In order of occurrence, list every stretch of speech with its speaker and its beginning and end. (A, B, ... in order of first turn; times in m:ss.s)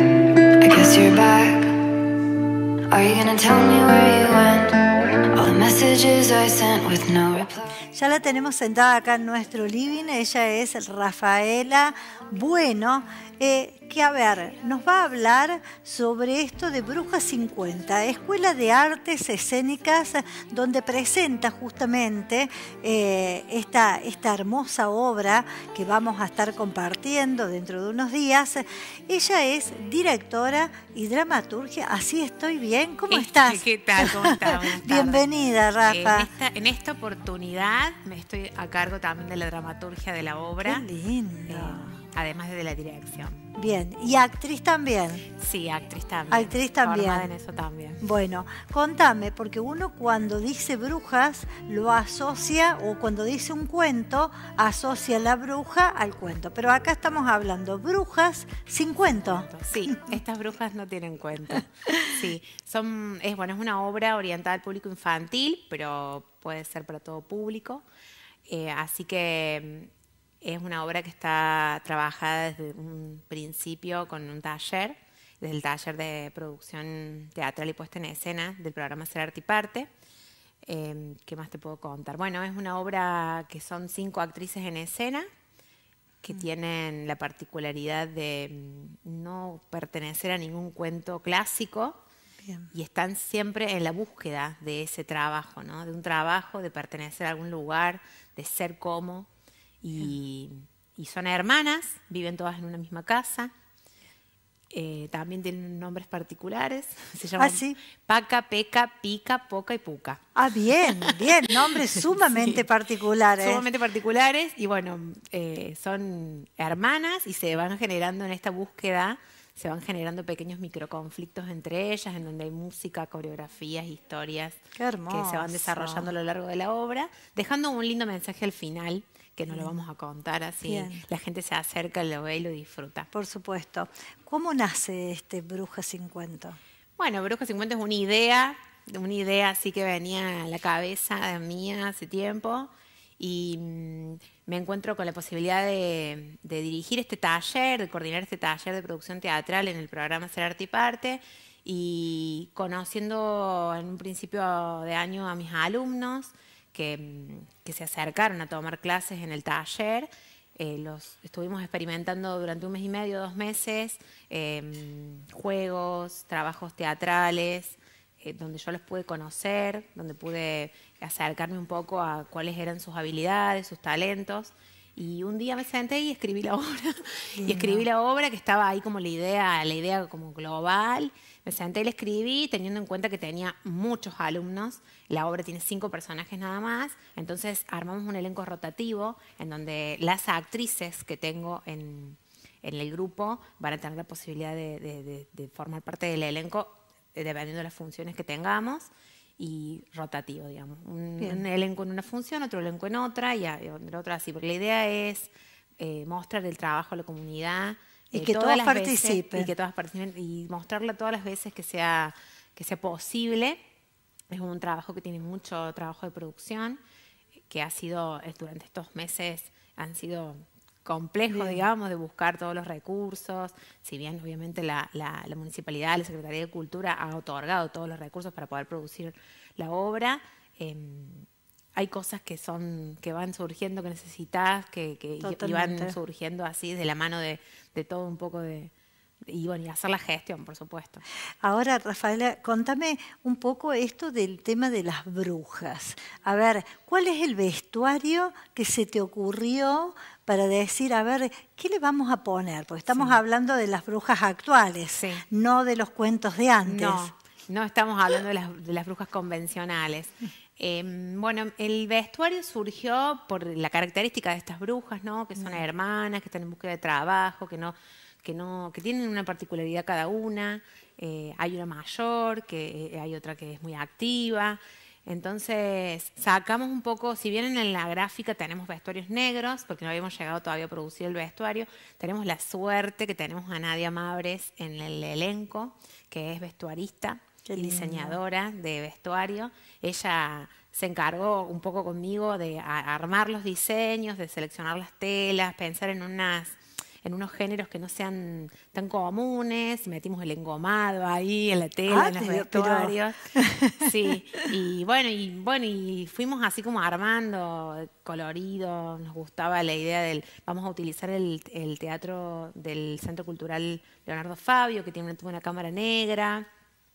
0:00.6-0:02.0 A
0:02.9-0:07.7 A
0:07.9-0:36.3 B
0:33.1-0:35.3 C
0:35.8-0:40.8 C
0:40.6-0:42.0 B
0:41.5-0:43.5 C
0:43.6-0:45.3 B
0:45.4-0:48.0 C
0:46.3-0:47.3 B
0:48.0-1:00.2 B
0:59.4-1:07.8 C
1:08.5-1:09.9 C
1:10.4-1:19.9 C
1:20.7-1:25.3 C
1:26.2-1:32.0 C
1:32.4-1:32.7 B
1:32.7-1:39.3 C
1:39.8-1:43.5 C
1:44.7-1:50.2 C
1:47.4-1:47.8 B
1:50.4-1:53.6 B
1:50.8-1:52.6 C
1:53.4-2:04.6 C
2:04.8-2:06.1 B
2:05.1-2:13.1 C
2:09.5-2:09.8 B
2:10.7-2:11.0 B
2:13.1-2:16.6 B
2:17.0-3:33.6 C
2:57.4-2:57.9 B
3:28.1-3:29.5 B
3:34.3-3:36.8 C
3:37.5-3:58.7 C
3:41.3-3:41.6 B
3:55.2-3:56.0 B
3:59.3-4:01.0 C
4:01.4-4:17.1 B
4:12.9-4:13.2 C
4:14.9-4:15.3 C
4:16.6-5:03.2 C
4:25.4-4:25.6 B
4:47.5-4:48.2 B
5:01.9-5:03.9 B
5:03.8-5:16.5 C